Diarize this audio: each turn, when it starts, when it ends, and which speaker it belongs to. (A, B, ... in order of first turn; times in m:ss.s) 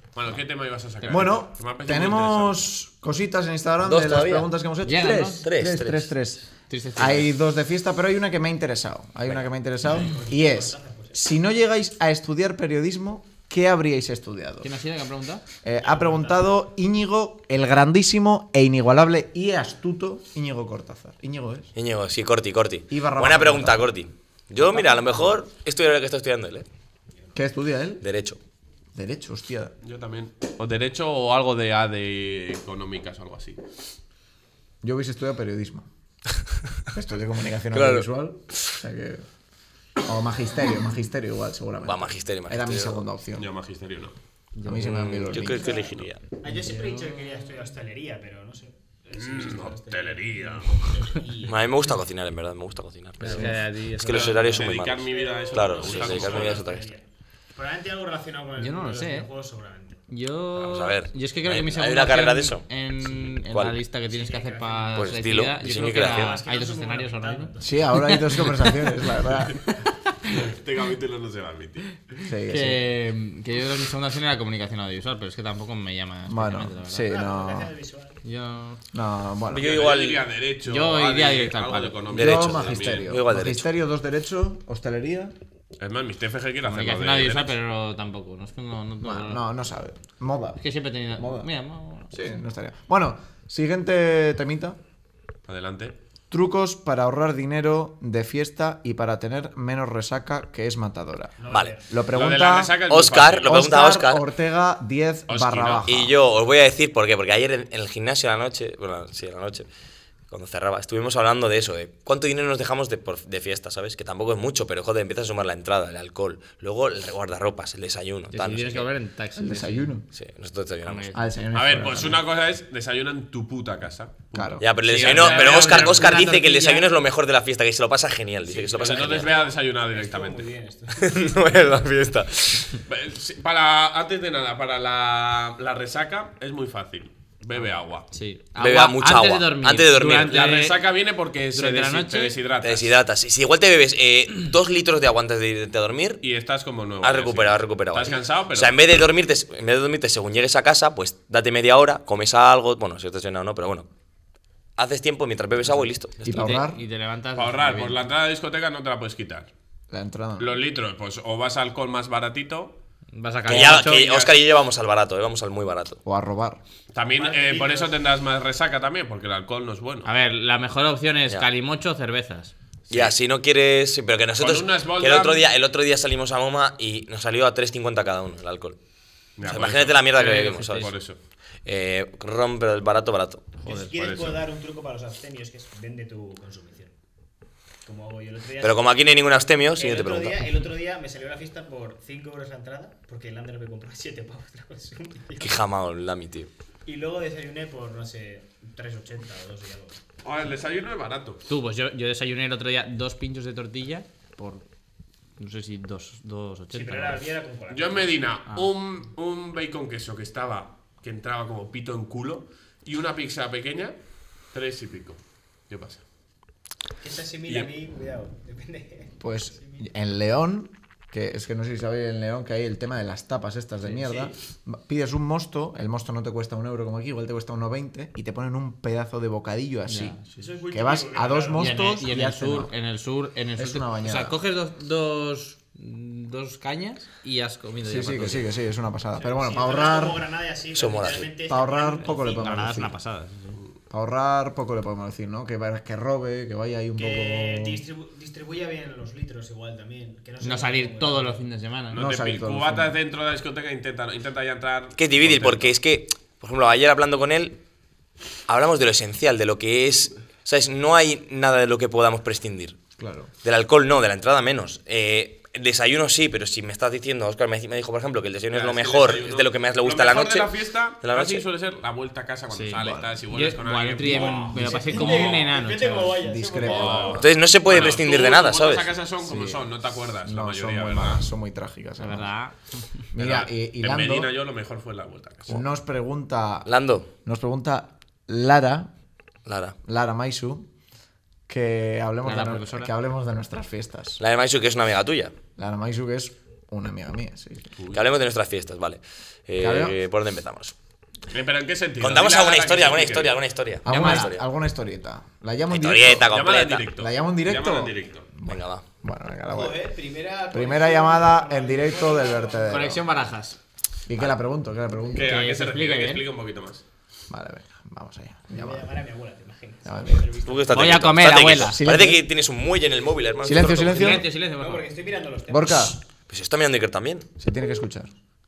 0:00.1-0:02.7 A
0:01.0-0:06.4 B
0:03.8-0:04.5 C
0:04.8-0:05.5 D
0:05.4-0:06.1 C
0:06.7-0:07.3 D
0:07.0-0:14.7 B
0:09.9-0:11.2 E
0:14.6-0:15.4 D
0:15.6-0:21.7 B
0:15.8-0:16.5 E
0:21.7-0:26.6 C
0:22.9-0:23.9 B
0:27.3-0:28.0 B
0:28.0-0:28.4 C
0:28.9-0:29.7 B
0:29.8-0:33.6 A
0:34.8-0:35.9 B
0:36.9-0:39.2 B
0:37.7-0:38.0 C
0:40.0-0:43.5 B
0:41.8-0:43.0 C
0:43.3-0:44.1 A
0:44.5-0:45.4 D
0:44.6-0:45.9 B
0:44.8-0:46.2 C
0:45.6-0:46.1 A
0:46.4-0:51.8 E
0:46.4-0:47.5 D
0:49.1-0:51.1 A
0:51.4-0:56.9 C
0:53.2-0:54.8 D
0:54.1-0:56.6 A
0:54.8-1:00.0 E
0:58.6-0:59.3 D
1:00.1-1:08.8 D
1:00.5-1:03.8 C
1:04.1-1:08.2 E
1:04.9-1:06.4 C
1:07.6-1:09.6 B
1:09.7-1:10.3 D
1:10.2-1:11.9 A
1:12.2-1:12.8 B
1:12.5-1:17.1 D
1:16.3-1:17.7 B
1:17.0-1:18.2 E
1:18.2-1:18.8 D
1:18.9-1:19.7 B
1:19.5-1:20.2 C
1:19.5-1:23.1 A
1:20.6-1:22.1 D
1:22.1-1:23.6 C
1:22.1-1:25.3 B
1:25.8-1:27.6 A
1:26.6-1:29.4 D
1:29.0-1:30.6 B
1:30.6-1:32.2 D
1:31.1-1:31.5 B
1:32.1-1:34.8 B
1:35.5-1:35.9 A
1:36.3-1:42.8 B
1:41.4-1:41.9 E
1:42.1-1:43.5 A
1:42.8-1:44.2 C
1:43.4-1:46.1 B
1:45.3-1:45.8 A
1:45.8-1:49.6 C
1:50.3-1:58.9 C
1:58.3-1:59.9 D
1:59.4-2:00.1 B
2:00.1-2:01.1 C
2:00.8-2:01.2 D
2:01.1-2:02.2 B
2:01.5-2:06.1 A
2:04.3-2:04.6 B
2:04.6-2:09.3 C
2:04.8-2:06.9 D
2:08.4-2:11.3 E
2:08.7-2:10.5 A
2:10.9-2:12.8 C
2:12.9-2:18.1 A
2:18.1-2:20.8 D
2:18.6-2:20.4 C
2:20.2-2:22.9 A
2:21.5-2:22.3 D
2:22.6-2:26.2 C
2:26.2-2:28.8 A
2:27.0-2:33.8 C
2:34.8-2:36.4 C
2:36.2-2:36.8 B
2:36.2-2:38.0 D
2:37.3-2:39.5 A
2:39.9-2:40.6 B
2:40.4-2:42.7 A
2:43.1-2:44.1 D
2:43.4-2:46.0 C
2:43.5-2:44.4 A
2:46.0-2:46.6 B
2:46.9-2:50.1 A
2:47.2-2:48.0 E
2:50.0-2:52.5 D
2:52.9-2:53.1 A
2:52.9-2:58.8 C
2:54.4-2:55.5 A
2:59.4-3:01.2 A
2:59.4-3:00.9 C
3:00.2-3:00.9 D
3:01.6-3:03.5 C
3:03.6-3:06.9 E
3:03.7-3:04.4 A
3:07.8-3:09.0 E
3:08.6-3:10.5 C
3:09.8-3:15.6 E
3:15.4-3:16.5 C
3:16.8-3:20.0 E
3:20.2-3:21.4 A
3:21.5-3:24.6 D
3:25.4-3:27.3 D
3:26.7-3:28.2 E
3:27.7-3:33.9 A
3:34.5-3:36.0 A
3:37.0-3:39.9 E
3:39.2-3:50.2 B
3:49.9-3:50.2 D
3:50.3-3:52.1 E
3:50.7-3:52.7 B
3:51.6-3:58.5 D
3:53.6-3:54.4 B
3:57.8-4:00.2 B
3:59.2-4:02.8 E
4:00.7-4:01.3 C
4:01.4-4:03.0 B
4:02.2-4:03.6 D
4:03.9-4:07.8 B
4:07.0-4:11.4 E
4:10.4-4:12.0 D
4:11.9-4:15.7 A
4:11.9-4:13.0 B
4:15.0-4:17.6 C
4:18.5-4:22.8 C
4:23.0-4:23.3 B
4:23.4-4:31.4 C
4:28.5-4:35.5 A
4:32.5-4:36.2 D
4:32.8-4:33.1 B
4:34.0-4:37.3 E
4:34.5-4:34.8 B
4:36.2-4:37.3 B
4:36.6-4:41.2 A
4:37.1-4:38.9 C
4:39.2-4:39.6 B
4:40.2-4:42.3 B
4:42.0-4:42.8 D
4:43.1-4:44.3 B
4:43.1-4:45.6 A
4:45.5-4:46.7 B
4:46.6-4:47.1 C
4:47.2-4:48.9 B
4:49.4-4:49.8 C
4:49.8-4:50.7 B
4:51.5-4:54.2 B
4:52.2-4:52.9 D
4:54.2-4:55.3 C
4:55.6-4:57.7 B
4:57.9-5:00.7 C
4:59.6-5:00.0 B
5:01.3-5:03.4 A
5:02.0-5:04.4 C
5:03.8-5:06.3 B
5:03.9-5:04.3 D
5:05.7-5:06.9 C
5:06.3-5:08.3 A
5:06.9-5:09.8 B
5:08.4-5:08.8 C
5:09.5-5:12.9 E
5:10.5-5:13.0 B
5:12.7-5:13.6 D
5:14.1-5:15.3 B
5:15.1-5:16.8 A
5:15.2-5:16.3 D
5:17.3-5:18.9 B
5:18.5-5:21.0 E
5:19.8-5:20.3 B
5:20.4-5:24.2 C
5:20.7-5:21.8 D
5:21.6-5:22.2 B
5:23.4-5:24.2 B
5:23.8-5:24.9 D
5:24.5-5:25.9 E
5:25.5-5:26.0 B
5:26.3-5:27.3 C
5:27.4-5:28.1 B